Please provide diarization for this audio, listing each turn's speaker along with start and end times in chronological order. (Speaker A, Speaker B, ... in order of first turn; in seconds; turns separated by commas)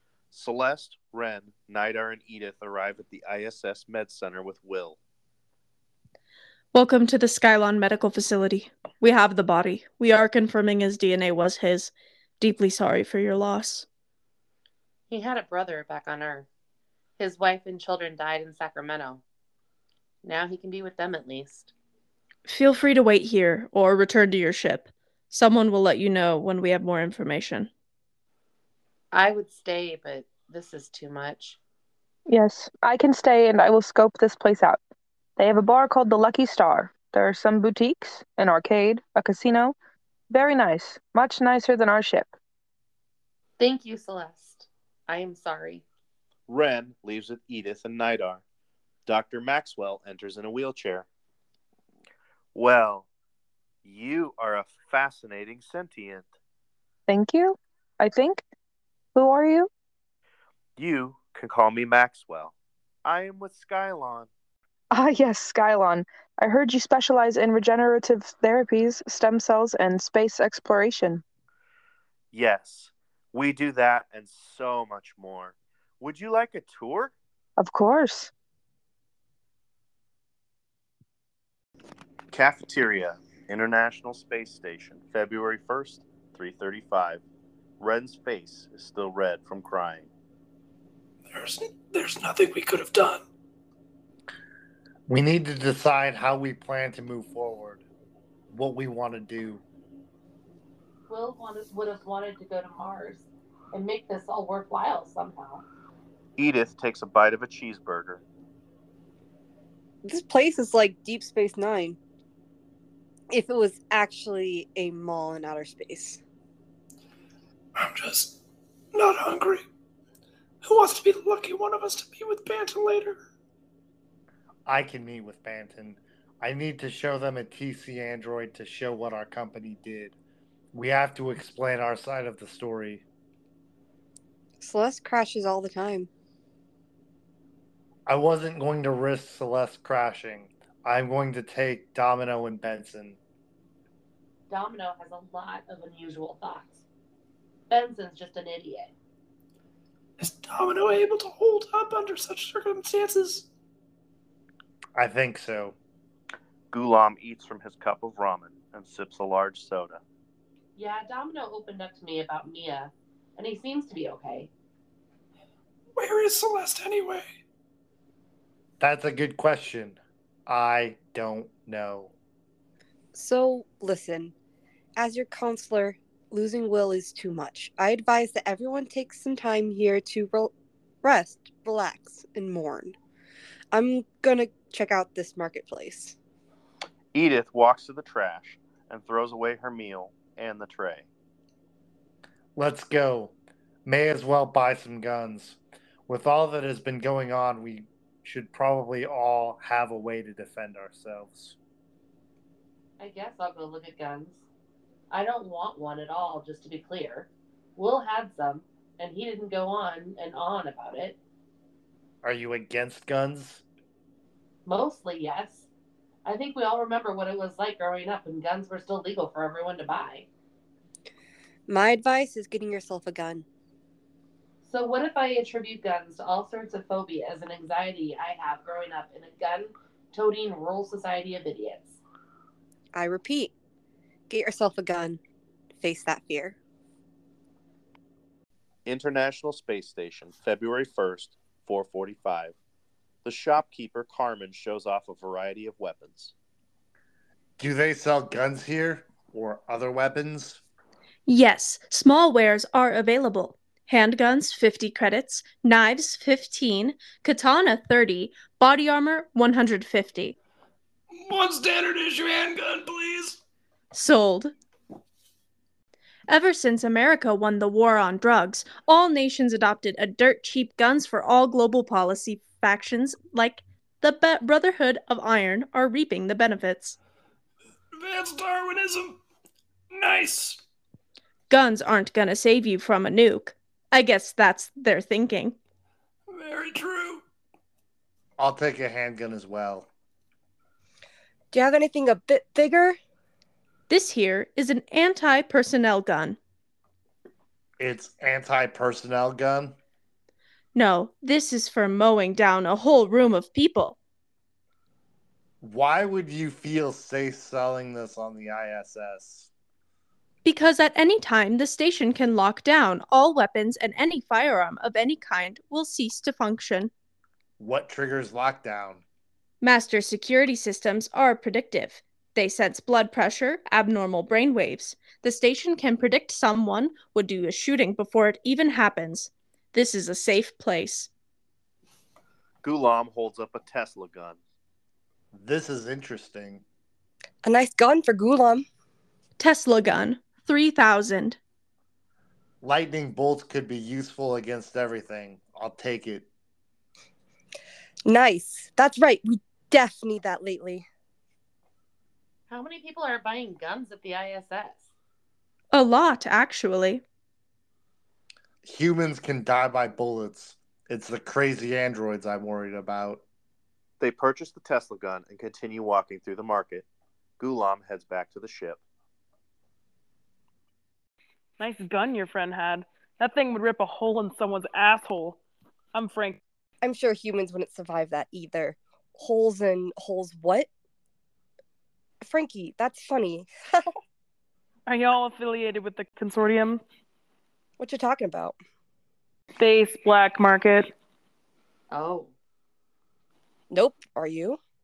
Speaker A: 0.3-5.0, Speaker B: 6.7-13.8, Speaker C: 15.1-16.5, Speaker C: 17.2-19.2, Speaker C: 20.2-21.7, Speaker B: 22.4-27.7, Speaker C: 29.1-31.6, Speaker D: 32.3-34.8, Speaker D: 35.4-39.7, Speaker D: 40.3-42.3, Speaker C: 43.6-45.8, Speaker A: 46.5-48.4, Speaker A: 49.0-51.0, Speaker A: 52.5-53.1, Speaker A: 53.8-56.3, Speaker D: 57.1-58.4, Speaker D: 59.1-59.7, Speaker A: 60.8-64.3, Speaker D: 64.9-71.2, Speaker A: 72.3-77.1, Speaker D: 77.6-78.3, Speaker A: 82.3-87.2, Speaker A: 87.8-90.1, Speaker E: 91.3-93.2, Speaker F: 95.1-97.8, Speaker F: 98.5-99.6, Speaker C: 101.1-105.6, Speaker A: 106.4-108.2, Speaker G: 110.0-112.0, Speaker G: 113.3-116.2, Speaker E: 117.8-118.4, Speaker E: 118.9-119.6, Speaker E: 120.6-123.2, Speaker F: 124.7-130.2, Speaker F: 130.7-133.0, Speaker G: 134.6-136.1, Speaker F: 138.1-143.2, Speaker C: 144.5-146.8, Speaker C: 147.7-148.9, Speaker E: 150.2-153.5, Speaker F: 154.9-155.8, Speaker A: 156.7-160.0, Speaker C: 160.8-164.5, Speaker E: 165.9-167.2, Speaker F: 168.8-172.1, Speaker G: 173.1-174.3, Speaker G: 174.9-180.5, Speaker G: 181.0-182.9, Speaker G: 183.7-186.2, Speaker A: 187.1-191.1, Speaker F: 192.6-201.6, Speaker C: 203.0-204.4, Speaker C: 205.1-211.2, Speaker F: 212.2-213.6, Speaker C: 214.7-215.7, Speaker C: 216.2-220.3, Speaker G: 221.7-223.4, Speaker C: 224.6-232.0, Speaker G: 232.9-233.5, Speaker G: 234.3-235.2, Speaker G: 235.8-236.6, Speaker A: 238.8-242.6, Speaker A: 243.2-246.3, Speaker F: 247.6-250.6, Speaker B: 251.2-260.3, Speaker E: 261.1-263.4, Speaker B: 263.9-264.5, Speaker B: 266.3-277.0, Speaker E: 277.9-279.2, Speaker E: 279.9-280.6, Speaker B: 281.5-285.6, Speaker E: 286.3-287.2, Speaker F: 288.4-289.9, Speaker G: 291.5-292.9, Speaker B: 293.9-296.4, Speaker F: 297.8-299.8, Speaker B: 300.7-304.0, Speaker F: 305.6-309.5, Speaker B: 310.4-316.9, Speaker F: 317.6-319.0, Speaker B: 319.6-331.1, Speaker A: 332.6-334.4, Speaker F: 335.3-336.6, Speaker G: 337.4-338.6, Speaker B: 339.4-341.4, Speaker F: 342.6-346.3, Speaker G: 348.0-350.8, Speaker C: 352.5-354.9, Speaker B: 355.7-357.0, Speaker F: 358.6-363.2, Speaker A: 364.0-366.9, Speaker A: 367.4-368.8, Speaker H: 371.6-375.4, Speaker H: 375.9-376.4, Speaker G: 376.8-380.7, Speaker G: 382.2-383.9, Speaker H: 384.9-386.8, Speaker G: 387.8-388.6, Speaker H: 389.6-390.9, Speaker C: 391.9-392.3, Speaker G: 393.7-394.6